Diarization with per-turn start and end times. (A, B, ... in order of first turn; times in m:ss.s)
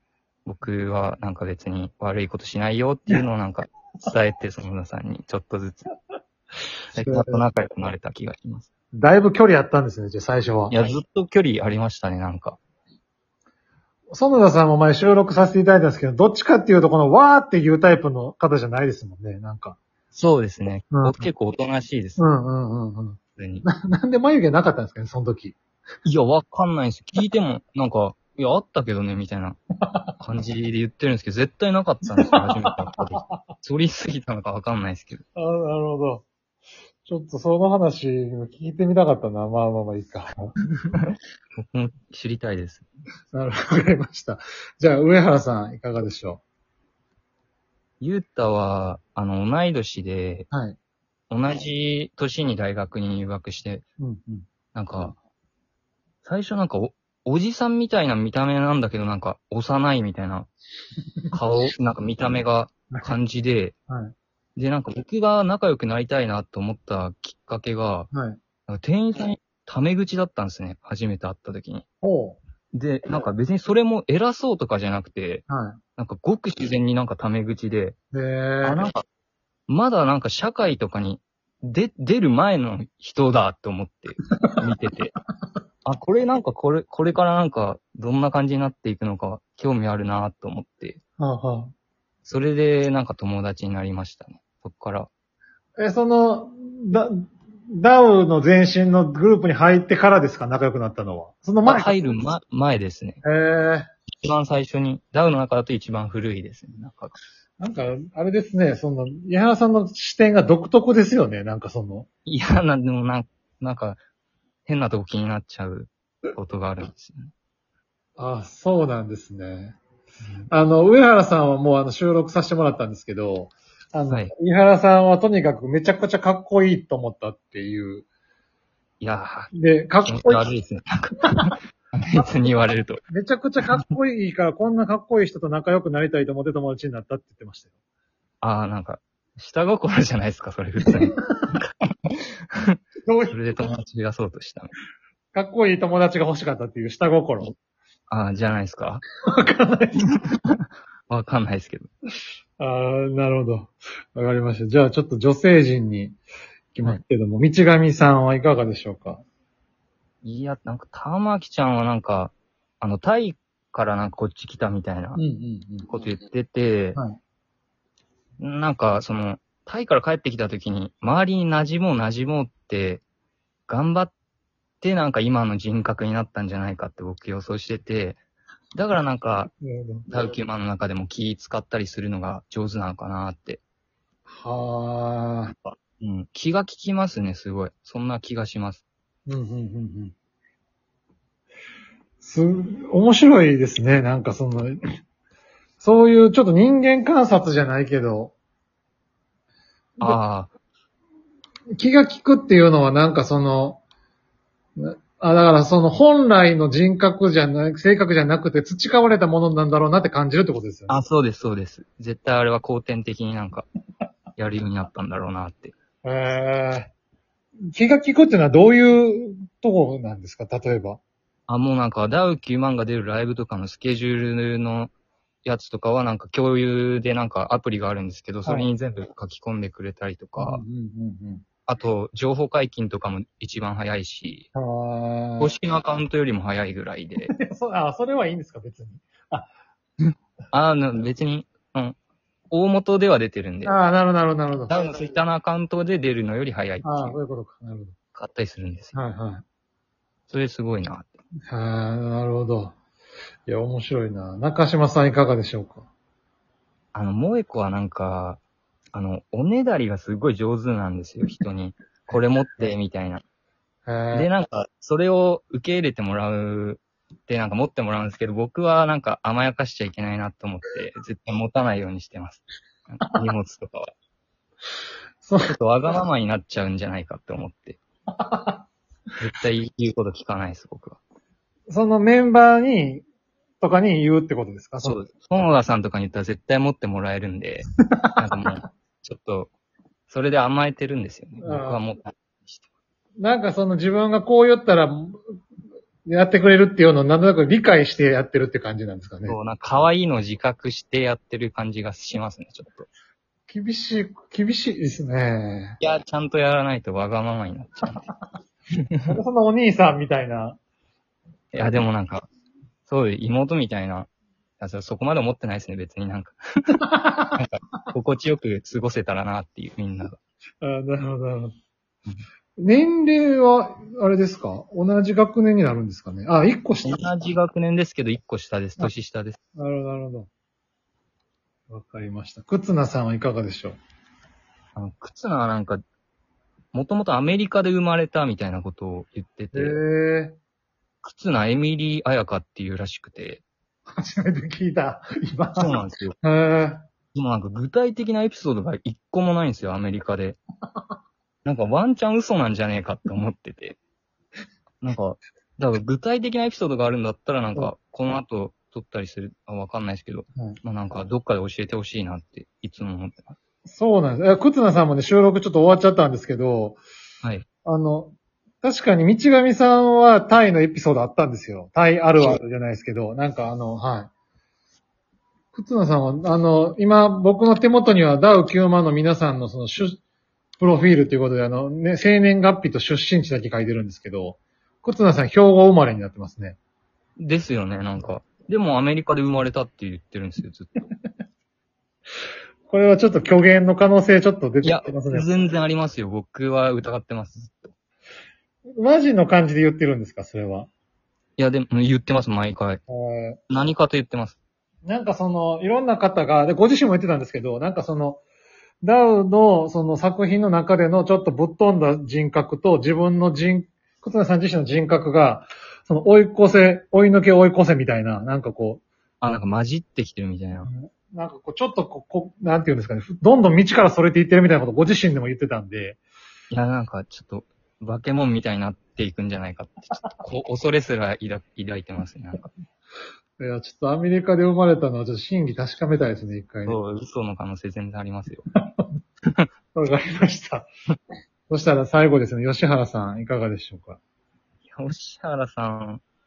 0:00.5-0:05.9 A
0:06.9-0:08.7 A
0:07.0-0:07.4 B
0:08.9-0:10.8 B
0:10.7-0:12.6 A
0:14.1-0:19.8 B
0:20.1-0:22.2 A
0:20.9-0:21.2 B
0:22.2-0:25.6 B
0:23.4-0:23.7 A
0:26.1-0:29.6 A
0:30.2-0:35.2 A
0:32.3-0:32.7 B
0:35.4-0:36.3 B
0:37.0-0:40.5 B
0:41.0-0:42.9 A
0:43.3-0:46.4 B
0:48.0-0:50.5 A
0:50.5-0:50.8 B
0:51.3-0:53.8 A
0:54.0-0:54.5 B
0:54.7-0:55.2 A
0:56.2-1:00.5 A
1:01.3-1:03.8 A
1:03.9-1:04.1 B
1:04.6-1:08.1 A
1:08.1-1:08.4 B
1:08.7-1:11.8 A
1:12.0-1:12.4 B
1:12.7-1:15.4 A
1:15.5-1:15.8 B
1:16.0-1:18.0 A
1:18.1-1:18.8 B
1:18.6-1:19.0 A
1:19.7-1:25.1 A
1:25.8-1:31.0 A
1:31.2-1:31.7 B
1:32.2-1:35.1 A
1:35.8-1:42.0 B
1:41.6-1:43.2 A
1:43.2-1:43.9 B
1:44.2-1:47.2 A
1:47.6-1:52.1 B
1:52.2-1:54.0 A
1:54.7-1:57.3 A
1:58.2-1:59.8 B
2:00.5-2:08.1 B
2:09.0-2:09.5 A
2:09.5-2:10.5 B
2:10.0-2:13.0 A
2:12.2-2:17.7 B
2:18.4-2:24.7 A
2:23.1-2:23.5 B
2:25.3-2:27.5 B
2:28.1-2:29.0 A
2:29.2-2:30.1 B
2:30.3-2:31.9 A
2:32.6-2:36.2 B
2:36.7-2:39.2 B
2:40.2-2:45.2 A
2:45.2-2:45.9 B
2:45.9-2:47.0 A
2:48.4-2:53.0 A
2:53.7-2:54.1 A
2:54.8-2:58.2 A
2:58.8-2:59.5 A
2:59.6-3:00.1 B
3:00.1-3:03.6 A
3:04.3-3:05.5 B
3:05.6-3:08.8 A
3:09.3-3:10.1 B
3:12.2-3:14.8 B
3:15.8-3:18.4 B
3:20.0-3:20.5 A
3:21.8-3:23.8 B
3:24.8-3:31.0 B
3:30.9-3:33.7 A
3:34.4-3:35.8 A
3:36.0-3:36.9 B
3:37.8-3:41.0 B
3:41.5-3:44.9 A
3:45.4-3:50.6 A
3:50.4-3:51.4 B
3:51.7-3:54.5 A
3:54.6-3:55.5 B
3:55.4-3:57.3 A
3:57.4-3:59.5 B
4:00.5-4:02.0 A
4:02.5-4:03.8 A
4:03.6-4:04.8 B
4:04.7-4:07.2 A
4:06.8-4:08.0 B
4:08.2-4:09.0 A
4:08.9-4:09.4 B
4:10.3-4:11.2 A
4:11.5-4:12.7 B
4:13.5-4:15.9 B
4:17.0-4:18.4 A
4:18.9-4:23.2 A
4:23.9-4:24.3 B
4:24.1-4:33.9 A
4:35.2-4:35.5 B
4:35.4-4:37.8 A
4:38.2-4:38.6 B
4:39.2-4:41.0 A
4:41.7-4:43.0 B
4:43.6-4:45.0 B
4:44.8-4:49.5 A
4:50.1-4:52.7 A
4:51.4-4:51.8 B
4:53.2-4:55.2 B
4:56.1-4:59.4 B
4:59.3-5:02.9 A
5:03.5-5:05.8 B
5:05.8-5:08.1 A
5:09.1-5:10.6 B
5:11.5-5:12.3 A
5:12.9-5:14.1 A
5:14.6-5:16.8 A
5:16.9-5:17.4 B
5:17.4-5:20.2 A
5:20.6-5:21.5 B
5:22.6-5:27.0 B
5:26.8-5:29.4 A
5:29.6-5:30.3 B
5:31.7-5:33.8 B
5:34.8-5:35.8 A
5:36.7-5:39.8 A
5:39.5-5:40.4 B
5:41.0-5:43.4 A
5:43.9-5:46.8 B
5:45.6-5:46.2 A
5:47.1-5:50.4 A
5:51.4-5:53.8 A
5:54.8-6:03.4 A
6:03.7-6:06.8 B
6:07.6-6:14.1 B
6:15.5-6:20.0 B
6:20.6-6:26.6 B
6:27.2-6:30.8 A
6:32.7-6:35.3 B
6:34.6-6:37.7 A
6:38.8-6:40.7 B
6:41.4-6:42.8 A
6:42.9-6:43.4 B
6:43.5-6:44.4 A
6:44.8-6:48.2 B
6:48.8-6:58.8 B
6:59.2-7:00.7 A
7:00.7-7:06.0 B
7:06.5-7:12.5 A
7:13.4-7:16.8 B
7:16.7-7:18.5 A
7:18.6-7:18.9 B
7:19.8-7:20.7 B
7:21.5-7:24.0 B
7:24.7-7:26.0 A